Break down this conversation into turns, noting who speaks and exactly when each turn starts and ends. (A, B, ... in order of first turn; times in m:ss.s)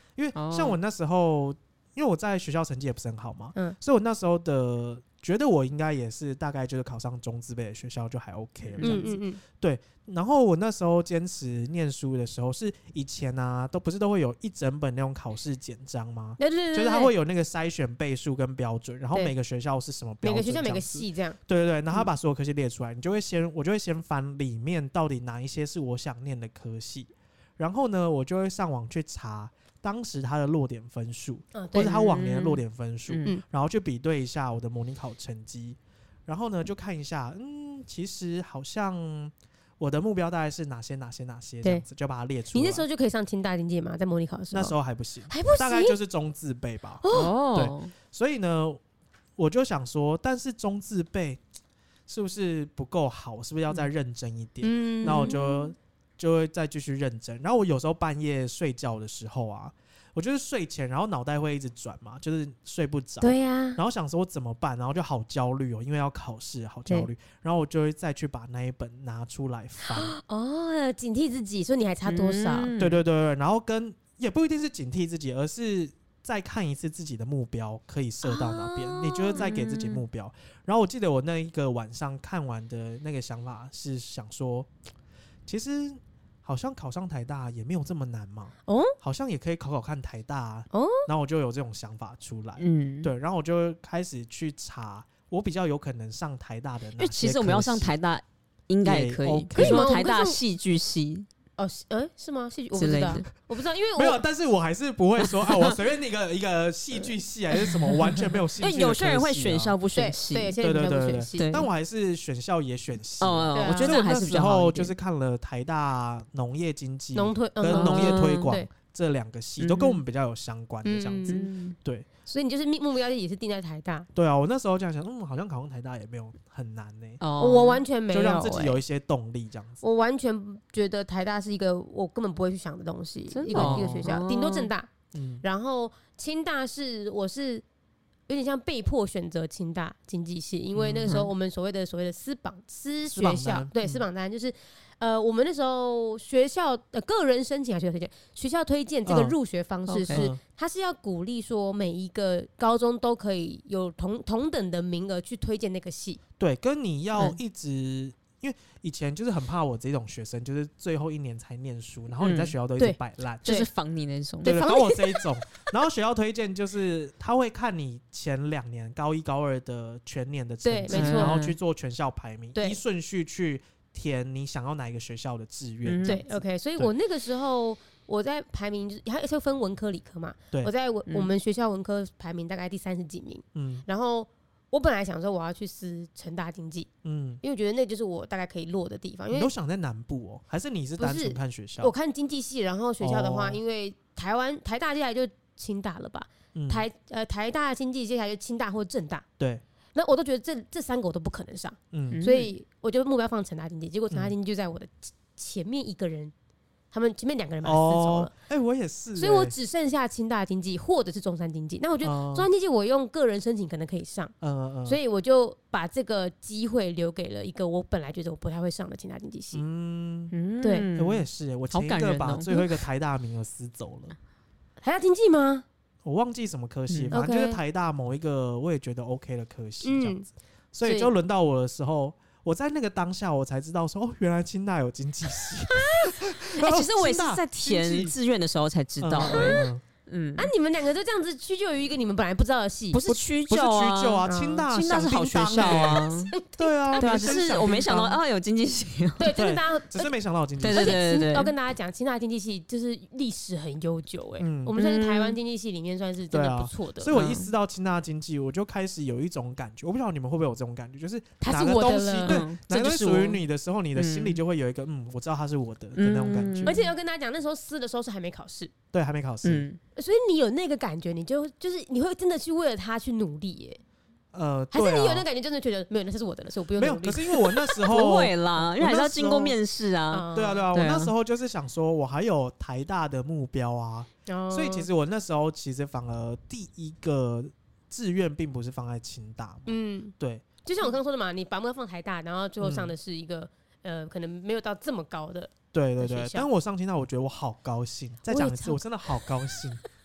0:00.2-0:42.8 A
0:00.3-0:00.8 B
0:08.7-0:09.1 B
0:08.8-0:09.4 C
0:16.4-0:17.1 C
0:20.2-0:21.4 C
0:31.5-0:32.0 C
0:31.7-0:33.3 B
0:42.5-0:44.7 C
0:44.5-0:48.8 A
0:45.3-0:46.0 C
0:47.0-0:47.3 C
0:47.1-0:47.9 B
0:49.4-0:51.4 A
0:52.1-1:10.1 A
0:54.6-0:55.7 C
0:55.0-0:55.4 B
1:03.2-1:03.8 C
1:09.9-1:12.7 C
1:12.0-1:13.0 B
1:12.8-1:24.7 A
1:18.2-1:19.5 C
1:19.3-1:20.0 B
1:25.5-1:37.9 A
1:28.7-1:28.9 C
1:30.7-1:31.1 C
1:32.6-1:33.1 B
1:37.0-1:41.3 B
1:38.8-1:39.8 A
1:39.5-1:40.4 C
1:41.6-1:44.2 C
1:42.7-1:43.3 B
1:43.9-1:49.8 A
1:45.2-1:45.7 B
1:48.6-1:50.6 B
1:49.9-1:51.5 C
1:50.6-2:02.0 A
1:51.4-1:51.7 B
1:53.2-1:54.9 B
1:53.5-1:54.0 C
1:57.1-1:58.7 C
1:57.7-1:58.5 B
1:59.6-2:00.0 B
2:00.8-2:01.4 C
2:01.3-2:01.8 B
2:02.2-2:04.1 C
2:04.1-2:07.2 A
2:07.2-2:07.8 B
2:07.4-2:08.8 C
2:08.1-2:09.8 A
2:09.8-2:17.6 C
2:13.3-2:14.7 B
2:13.5-2:14.1 A
2:15.1-2:15.4 A
2:18.3-2:36.2 C
2:20.7-2:21.2 A
2:23.1-2:24.0 A
2:29.0-2:29.4 A
2:29.9-2:30.3 B
2:30.1-2:30.4 A
2:36.4-2:43.4 A
2:42.2-2:42.5 B
2:42.8-2:43.7 C
2:43.4-2:44.6 B
2:44.4-2:45.2 C
2:44.4-2:56.9 A
2:50.6-2:51.4 C
2:50.9-2:51.6 B
2:55.8-2:56.2 B
2:56.0-3:06.9 C
3:01.1-3:01.3 B
3:03.5-3:03.8 A
3:07.0-3:07.4 A
3:07.4-3:09.5 C
3:09.3-3:11.9 A
3:11.0-3:19.2 C
3:13.0-3:13.6 A
3:16.5-3:16.8 A
3:19.9-3:26.3 C
3:21.9-3:22.2 A
3:22.1-3:22.5 B
3:26.9-3:28.3 C
3:27.6-3:29.5 A
3:29.2-3:34.3 C
3:32.0-3:32.5 A
3:34.4-3:35.0 A
3:34.8-3:39.6 C
3:39.5-3:40.3 A
3:40.3-3:42.7 B
3:40.9-3:44.2 A
3:44.8-3:45.6 C
3:46.0-3:58.2 A
3:46.9-3:47.1 B
3:47.1-3:47.6 C
3:49.8-3:50.3 C
3:50.8-3:51.1 C
3:55.7-3:56.2 C
3:56.5-4:00.5 B
3:59.0-3:59.8 A
3:59.2-3:59.6 C
4:00.4-4:03.0 C
4:02.9-4:06.3 B
4:03.0-4:06.0 A
4:04.2-4:04.6 C
4:05.6-4:07.3 C
4:06.6-4:08.2 A
4:07.0-4:09.3 B
4:09.2-4:10.1 C
4:09.3-4:11.0 A
4:10.6-4:11.5 B
4:10.7-4:17.1 C
4:14.4-4:14.7 A
4:14.8-4:15.4 B
4:16.3-4:26.8 A
4:17.1-4:17.5 B
4:21.4-4:22.4 C
4:22.2-4:23.4 B
4:23.9-4:24.4 B
4:26.0-4:26.9 B
4:26.6-4:28.7 C
4:28.9-4:29.6 A
4:29.4-4:29.8 B
4:30.0-4:33.8 C
4:34.3-4:35.2 A
4:34.7-4:37.9 C
4:36.8-4:39.6 A
4:37.8-4:41.1 B
4:40.1-4:40.7 C
4:40.3-4:50.4 A
4:44.2-4:44.9 C
4:49.6-4:56.5 C
4:52.6-4:52.9 A
4:55.7-4:59.8 A
4:58.3-4:59.6 C